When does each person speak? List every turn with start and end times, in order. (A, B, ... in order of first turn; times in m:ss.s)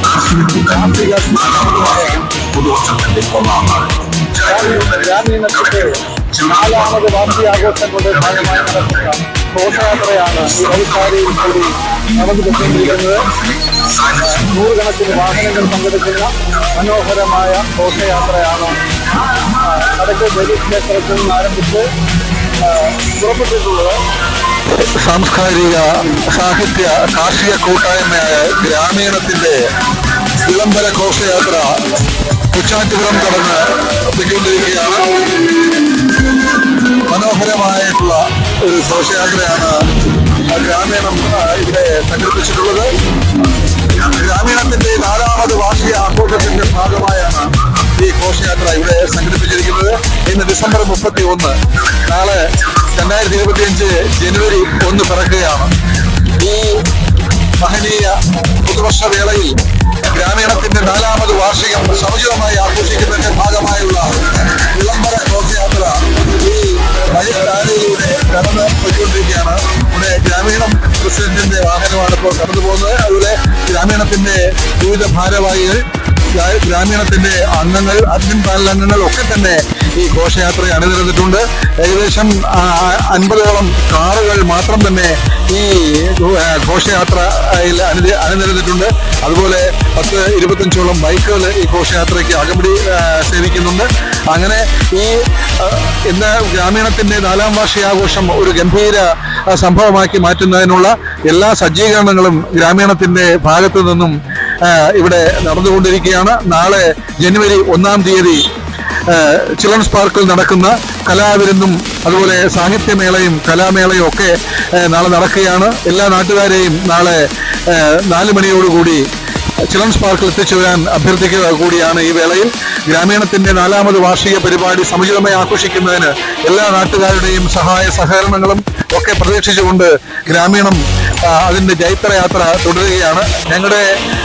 0:00.4-0:05.2 A
0:04.4-0:05.8 B
0:05.7-0:06.5 A
0:06.4-0:13.3 B
0:08.4-0:11.7 A
0:12.2-0:13.1 A
0:13.9-0:14.8 A
0:14.4-0:18.7 B
0:17.1-0:18.8 A
0:19.7-0:21.8 A
0:19.8-0:21.8 B
0:22.6-0:23.9 A
0:23.2-0:23.7 B
0:24.7-0:29.7 A
0:30.4-0:35.5 A
0:37.0-0:43.0 A
0:43.8-0:56.9 A
0:57.6-1:48.5 A
1:49.1-1:59.0 A
1:59.7-2:13.9 A